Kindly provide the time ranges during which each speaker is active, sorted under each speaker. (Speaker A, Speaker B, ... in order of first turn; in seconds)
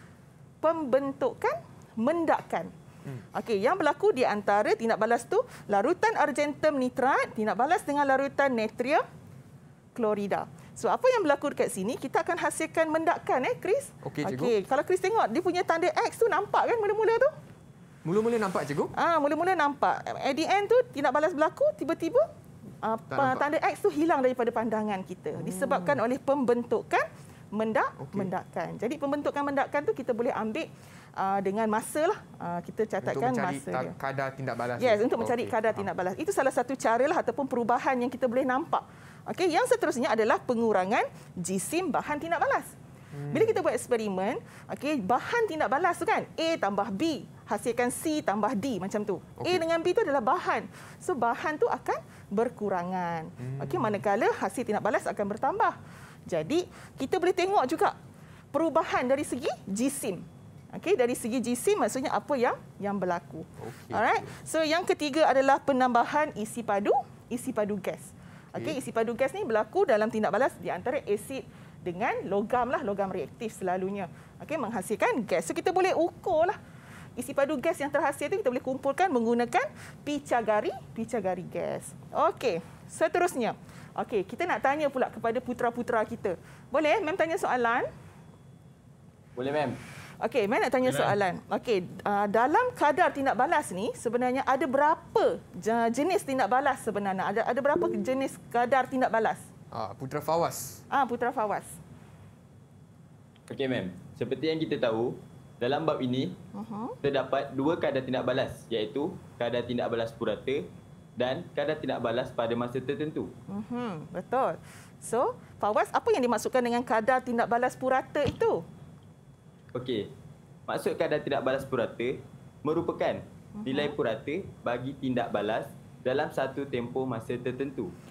Speaker A: 0.6-2.7, 3.3-9.0, 9.9-17.3, 18.9-22.3, 22.8-33.9, 34.8-42.7, 43.3-58.0, 58.5-76.6, 77.2-87.9, 90.2-99.4, 100.9-101.7, 106.5-107.0, 113.5-118.6, 123.5-124.0
Speaker B: 14.0-14.5, 18.0-18.9, 23.1-23.4, 25.3-26.0, 28.0-28.3, 33.0-35.9, 43.1-43.6, 49.4-49.6, 53.4-54.0, 63.6-64.3, 99.7-100.8
Speaker C: 89.3-89.8, 103.5-106.4, 107.0-110.6, 111.2-113.3, 119.7-120.1, 120.7-127.9